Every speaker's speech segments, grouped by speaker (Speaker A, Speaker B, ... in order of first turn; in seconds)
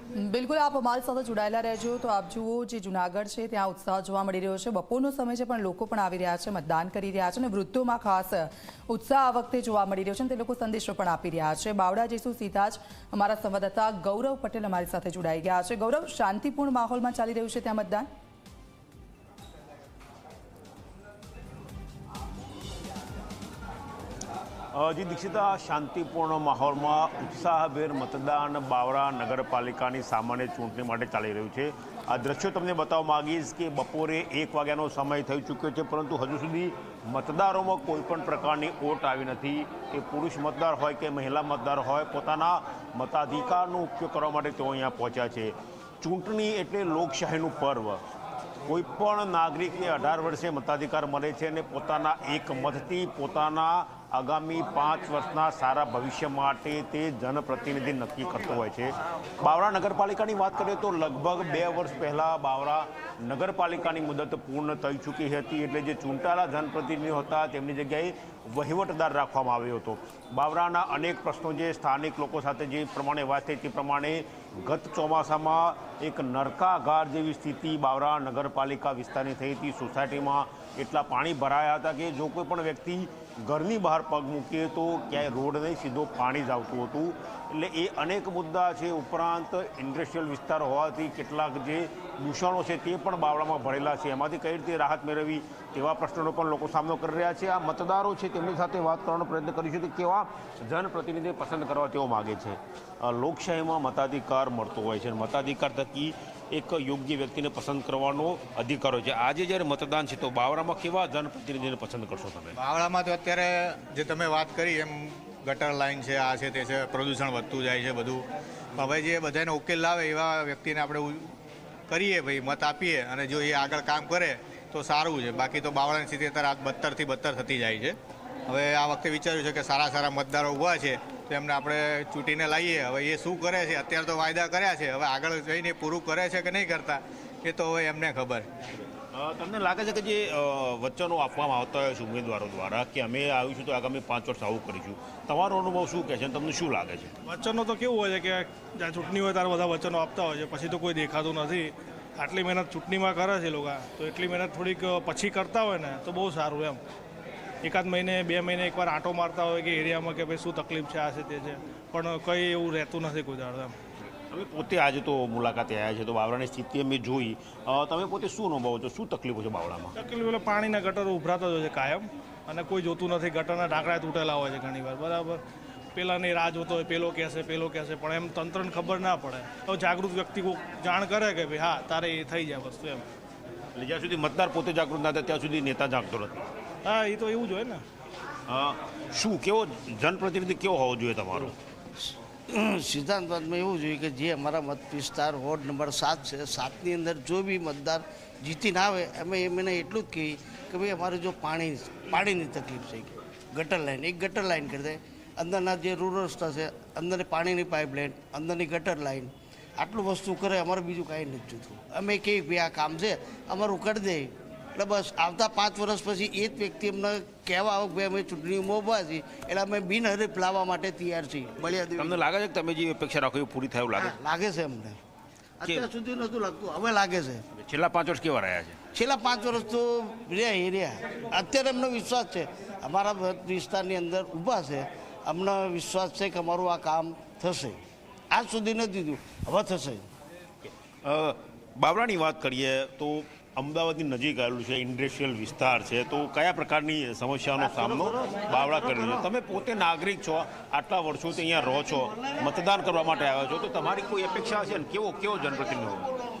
Speaker A: 0.1-18.1
Speaker B: 24.7-48.0, 48.6-112.5, 139.1-147.1, 164.3-169.9, 183.7-186.5, 188.5-191.6, 221.9-224.2, 227.5-228.8, 240.6-256.1
Speaker C: 112.5-121.3, 121.9-128.0, 128.5-138.4
Speaker D: 147.2-156.8, 157.6-163.7, 170.0-175.4, 175.9-183.0, 186.8-187.8
Speaker E: 192.5-222.1, 224.0-225.0, 225.6-227.4, 228.9-237.8, 238.3-240.1, 248.0-249.1